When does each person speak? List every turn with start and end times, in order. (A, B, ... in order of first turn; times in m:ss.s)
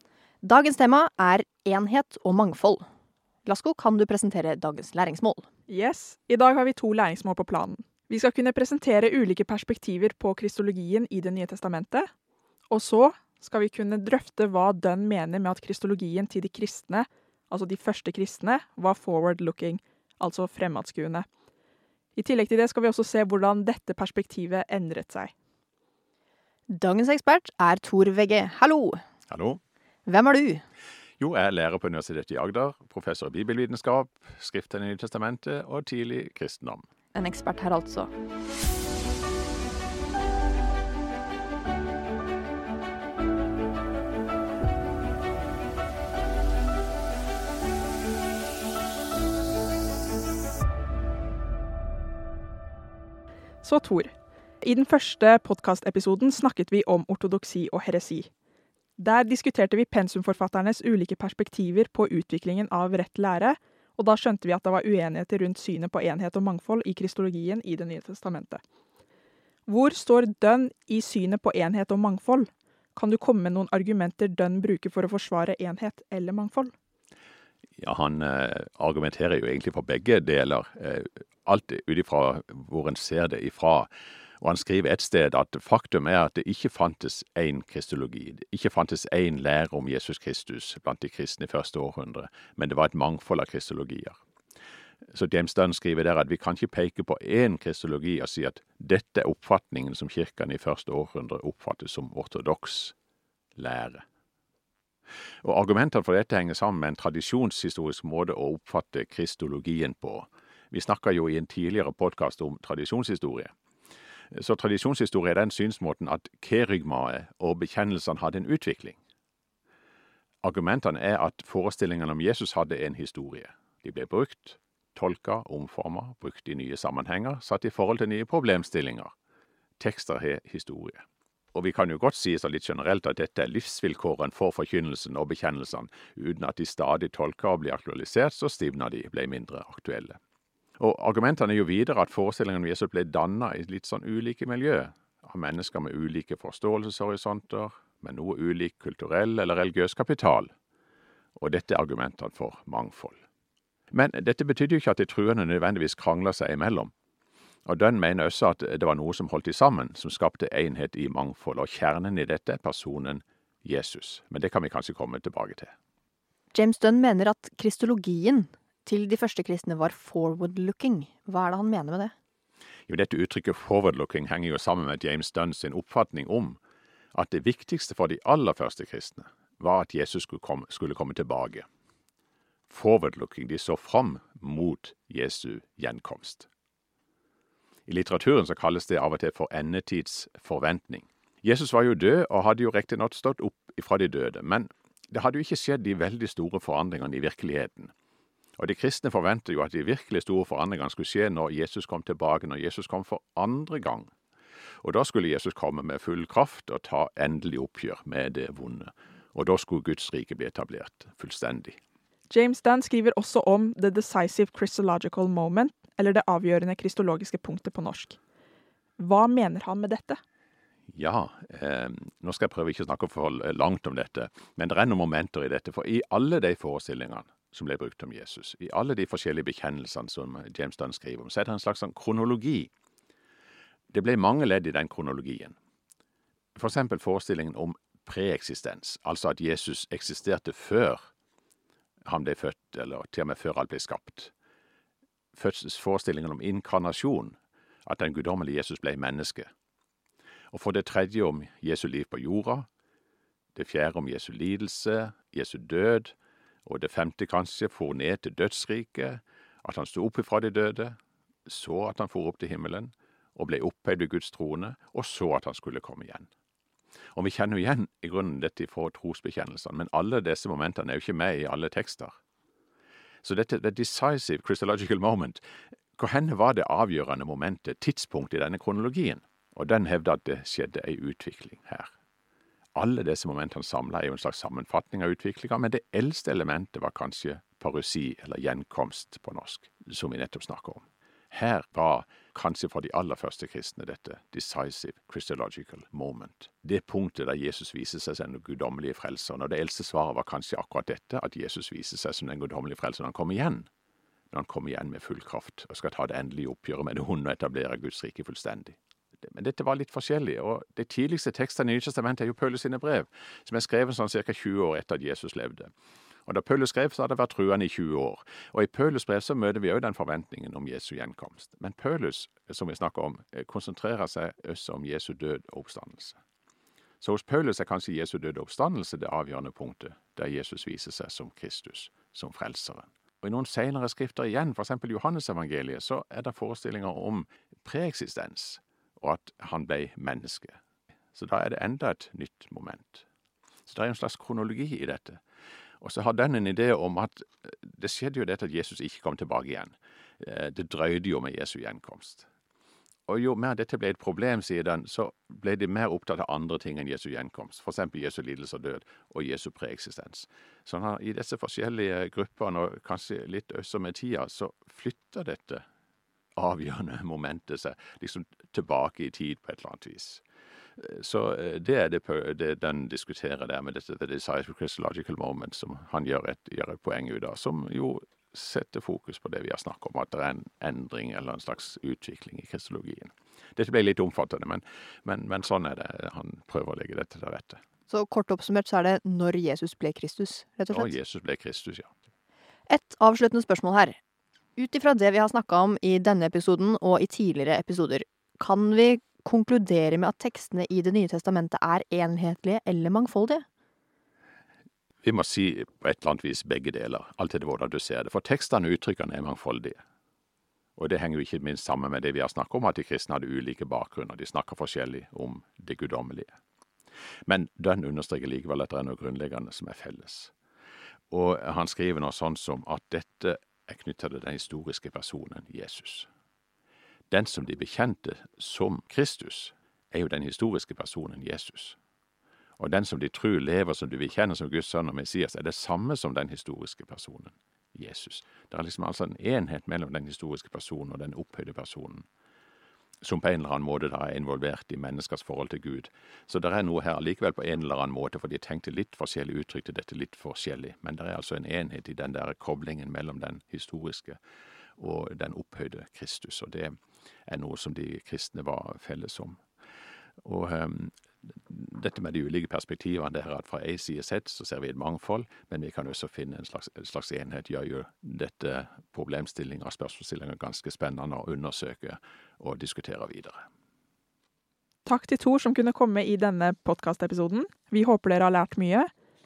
0:00.4-0:02.8 A
0:03.4-0:05.4 A
0:05.7-0:12.1 B
0:12.7-0:21.3 B
0:22.2-0:25.3 B
0:26.7-0:29.0 A
0:29.3-0:29.6 C
0:30.1-0:30.6 A
0:31.2-0:36.9 C
0:37.2-0:38.1 A
0:53.6-0:58.3 B
0:59.0-1:08.6 B
1:09.7-1:16.7 B
1:17.8-1:23.9 C
1:24.4-1:34.2 C
1:35.1-1:43.0 C
1:43.6-1:44.0 C
1:45.4-1:53.5 C
1:54.3-1:59.0 C
2:00.4-2:09.1 C
2:09.8-2:11.0 C
2:11.5-2:20.2 C
2:20.8-2:30.5 C
2:31.4-2:33.2 C
2:33.9-2:36.9 C
2:37.7-2:45.7 C
2:46.5-2:52.1 A
2:52.9-2:56.6 C
2:57.1-3:01.6 C
3:02.7-3:06.5 C
3:07.9-3:17.9 C
3:18.6-3:24.1 C
3:24.8-3:31.8 C
3:32.3-3:38.2 B
3:39.0-3:40.2 B
3:40.9-3:52.7 C
3:53.9-3:55.6 C
3:56.6-4:01.0 C
4:02.1-4:04.3 C
4:05.4-4:09.5 C
4:10.5-4:12.7 C
4:13.6-4:16.2 C
4:16.7-4:26.3 C
4:27.1-4:32.1 C
4:33.2-4:35.4 C
4:36.0-4:41.9 C
4:42.8-5:03.7 C
5:04.3-5:15.7 C
5:16.3-5:26.2 C
5:27.0-5:40.6 C
5:41.2-5:43.1 C
5:43.7-5:45.2 C
5:45.8-5:52.3 C
5:53.1-6:05.6 C
6:06.4-6:10.2 C
6:10.8-6:27.6 C
6:27.9-6:30.9 A
6:30.7-6:31.9 C
6:32.7-6:34.0 A
6:34.6-6:43.4 A
6:45.0-6:49.8 C
6:50.8-6:56.4 C
6:57.3-7:00.3 C
7:01.1-7:06.1 C
7:07.1-7:11.8 C
7:12.6-7:22.1 C
7:23.0-7:34.2 C
7:34.8-7:36.7 C
7:37.3-7:39.4 C
7:40.2-7:53.4 C
7:54.8-7:58.9 B